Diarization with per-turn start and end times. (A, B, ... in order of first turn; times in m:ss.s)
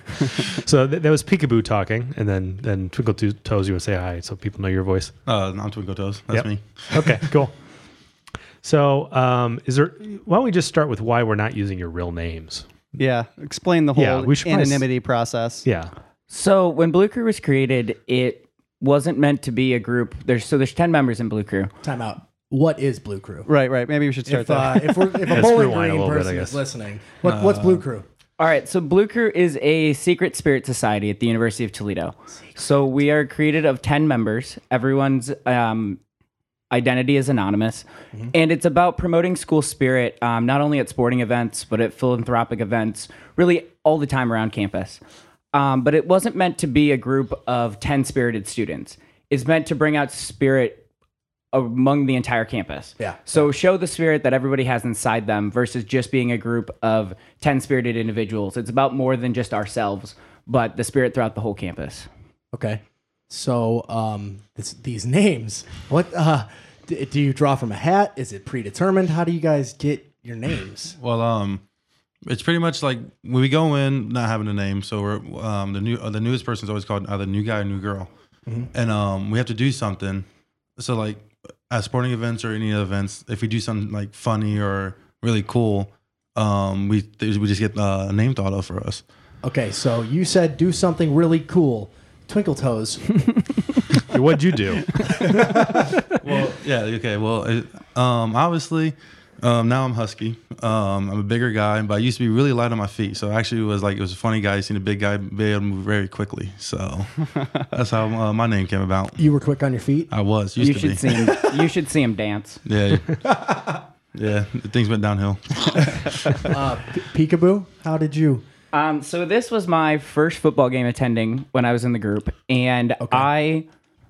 0:00.6-0:05.1 A
0:05.2-0:07.3 B
0:06.3-0:07.5 A
0:08.6-0:12.7 A
0:13.0-0:15.7 C
0:13.9-0:14.8 A
0:15.6-0:15.9 A
0:16.3-0:21.7 D
0:21.8-0:23.5 E
0:23.5-0:25.3 C
0:24.2-0:28.0 E
0:25.2-0:26.6 A
0:27.2-0:27.8 B
0:28.4-0:36.0 D
0:36.7-0:45.0 D
0:45.5-0:50.8 D
0:51.5-1:02.1 D
1:02.5-1:11.0 E
1:11.0-1:11.6 B
1:12.2-1:18.1 B
1:18.7-1:20.2 B
1:20.8-1:29.0 B
1:29.4-1:33.2 E
1:34.1-1:35.5 A
1:35.2-1:35.9 E
1:36.2-1:49.2 B
1:49.2-1:50.1 E
1:50.1-1:51.0 B
1:50.6-1:52.6 D
1:52.6-1:56.5 B
1:56.4-1:58.4 E
1:58.7-2:03.6 D
2:03.0-2:03.3 E